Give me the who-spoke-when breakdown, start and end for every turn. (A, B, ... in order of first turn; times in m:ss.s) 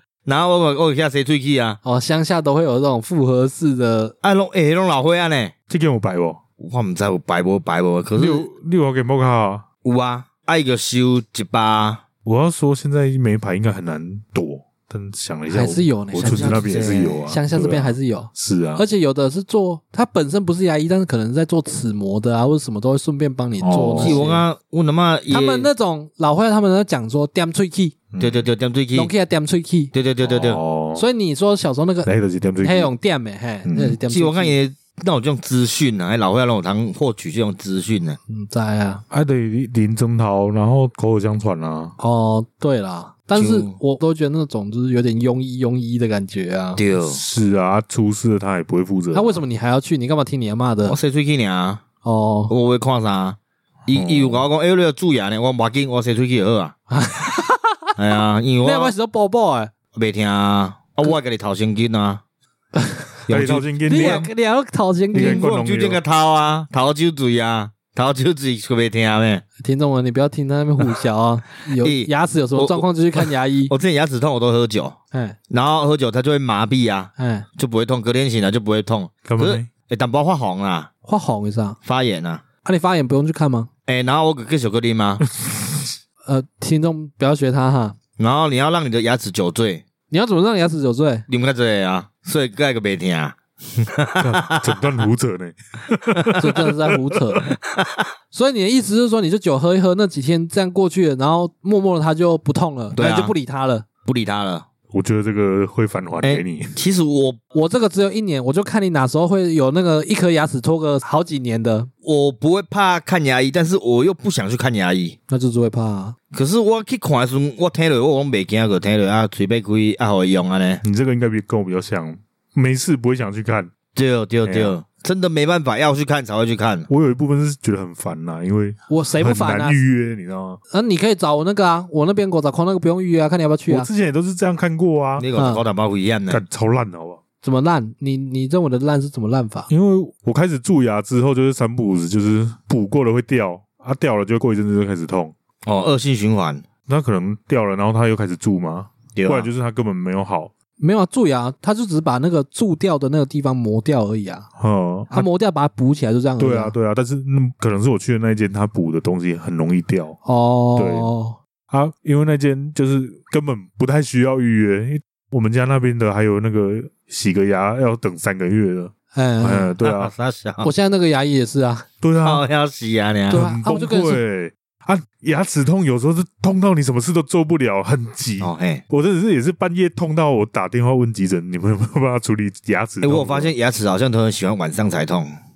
0:00.2-0:01.8 A
0:01.8-0:04.2 B
0:04.2-0:05.5 A
0:05.7-0:06.4 C
0:06.6-0:08.5 A
0:08.2-0:09.6 C
0:09.8-0:12.0 A
0:12.2-0:18.8 C
0:15.5-0:24.4 B
0:16.2-0:17.2 A
0:23.6-0:24.4 C
0:24.0-0:25.7 A
0:25.3-0:28.0 B
0:28.1-0:28.5 C
0:28.2-0:29.1 A
0:29.0-0:29.9 B
0:29.9-0:30.6 A
0:30.2-0:31.0 C
0:31.0-0:32.1 B
0:32.0-0:32.9 C
0:32.6-0:34.6 B
0:33.6-0:34.0 C
0:34.1-0:38.2 A
0:38.3-0:39.0 B
0:39.1-0:42.0 C
0:42.0-0:46.8 B
0:43.4-0:43.8 A
0:46.8-0:47.2 A
0:47.1-0:49.4 C
0:49.1-0:51.0 B
0:50.9-0:51.8 A
0:52.0-0:52.5 B
0:52.5-0:56.8 A
0:53.9-0:54.4 C
0:56.9-0:57.9 B
0:58.0-0:58.9 A
0:58.6-0:59.7 B
0:59.9-1:02.2 A
1:02.8-1:03.1 B
1:03.3-1:04.3 A
1:03.3-1:04.3 C
1:03.8-1:05.5 B
1:05.1-1:06.0 C
1:05.1-1:09.4 A
1:09.6-1:13.7 B
1:11.8-1:15.0 A
1:15.5-1:20.9 A
1:17.2-1:17.5 B
1:19.2-1:19.7 C
1:21.0-1:21.8 B
1:21.8-1:22.4 A
1:22.6-1:23.7 B
1:23.9-1:25.3 A
1:26.2-1:28.0 B
1:28.2-1:29.8 A
1:30.1-1:31.2 B
1:31.3-1:34.7 A
1:34.2-1:36.7 C
1:36.4-1:37.5 B
1:37.5-1:38.1 A
1:38.3-1:43.8 B
1:42.9-1:43.3 A
1:44.0-1:44.7 A
1:44.9-1:46.8 C
1:46.2-1:47.4 A
1:47.5-1:51.9 B
1:52.0-1:55.2 A
1:55.3-1:56.2 B
1:56.3-2:00.8 A
2:00.8-2:03.7 C
2:04.0-2:06.9 A
2:04.4-2:04.7 C
2:06.9-2:10.6 C
2:08.9-2:09.8 B
2:10.7-2:13.9 B
2:13.7-2:15.3 C
2:15.2-2:16.4 A
2:15.4-2:15.6 B
2:16.3-2:17.2 C
2:17.4-2:19.7 B
2:19.7-2:25.3 C
2:25.6-2:26.6 A
2:26.9-2:30.5 C
2:29.2-2:29.5 A
2:30.8-2:34.5 B
2:34.6-2:35.3 C
2:35.1-2:36.8 B
2:36.4-2:40.2 C
2:40.2-2:41.4 B
2:40.8-2:41.1 C
2:41.7-2:50.1 C
2:49.1-2:49.7 B
2:49.8-2:50.7 A
2:50.6-2:51.9 B
2:52.0-2:52.4 C
2:52.2-2:53.5 A
2:53.3-2:54.2 B
2:53.3-3:03.5 C
2:58.4-2:58.8 A
3:03.0-3:05.3 A